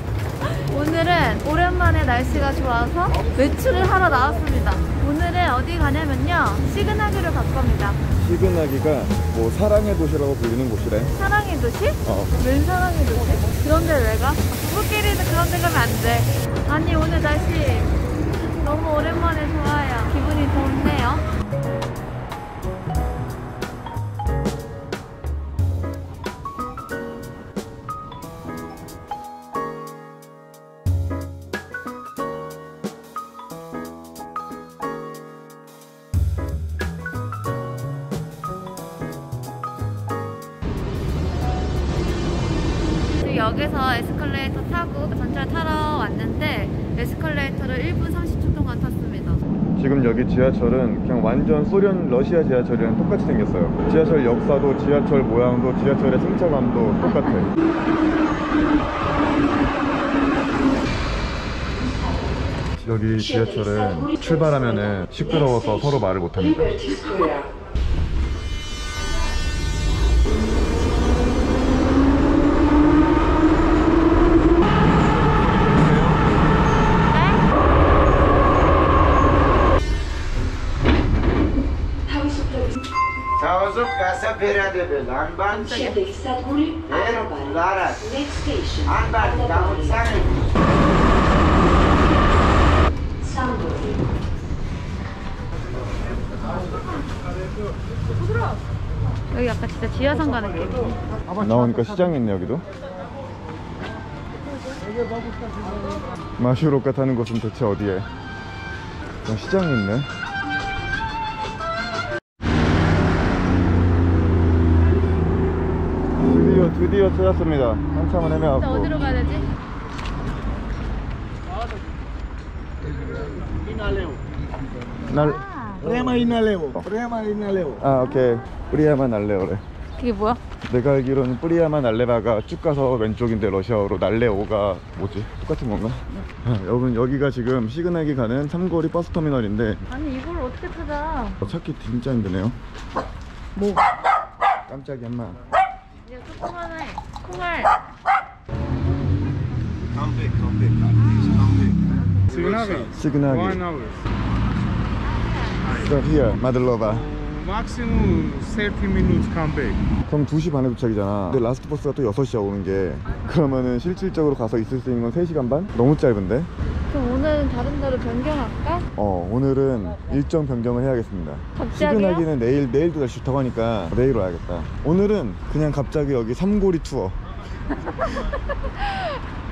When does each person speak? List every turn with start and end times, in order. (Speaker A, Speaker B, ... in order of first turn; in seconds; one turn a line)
Speaker A: 0.4-8.0
Speaker B: 8.2-11.2
Speaker A: 11.1-17.9
Speaker B: 12.0-12.3
Speaker A: 18.6-21.3
Speaker A: 43.1-49.4
Speaker B: 49.8-57.5
Speaker A: 57.0-57.5
Speaker B: 62.8-67.0
Speaker A: 77.1-77.5
Speaker C: 83.4-85.5
Speaker A: 85.4-86.2
Speaker C: 86.9-88.1
Speaker C: 88.9-90.3
Speaker A: 99.3-100.9
Speaker B: 101.3-102.6
Speaker A: 104.4-104.8
Speaker B: 106.4-108.1
Speaker B: 109.2-110.1
Speaker B: 116.2-118.9
Speaker A: 118.5-119.5
Speaker B: 125.0-126.9
Speaker A: 125.1-125.9
Speaker B: 127.7-129.6
Speaker A: 130.0-130.4
Speaker B: 130.6-139.8
Speaker A: 139.9-141.4
Speaker B: 141.4-142.6
Speaker A: 143.6-143.8
Speaker B: 144.7-145.4
Speaker A: 146.0-147.8
Speaker C: 150.0-150.7
Speaker A: 150.9-152.2
Speaker D: 152.3-152.9
Speaker B: 152.9-153.6
Speaker D: 153.7-154.0
Speaker B: 155.7-157.1
Speaker D: 157.1-159.8
Speaker B: 160.1-166.5
Speaker A: 166.9-168.8
Speaker B: 168.9-177.2
Speaker A: 171.6-172.3
Speaker A: 177.7-179.2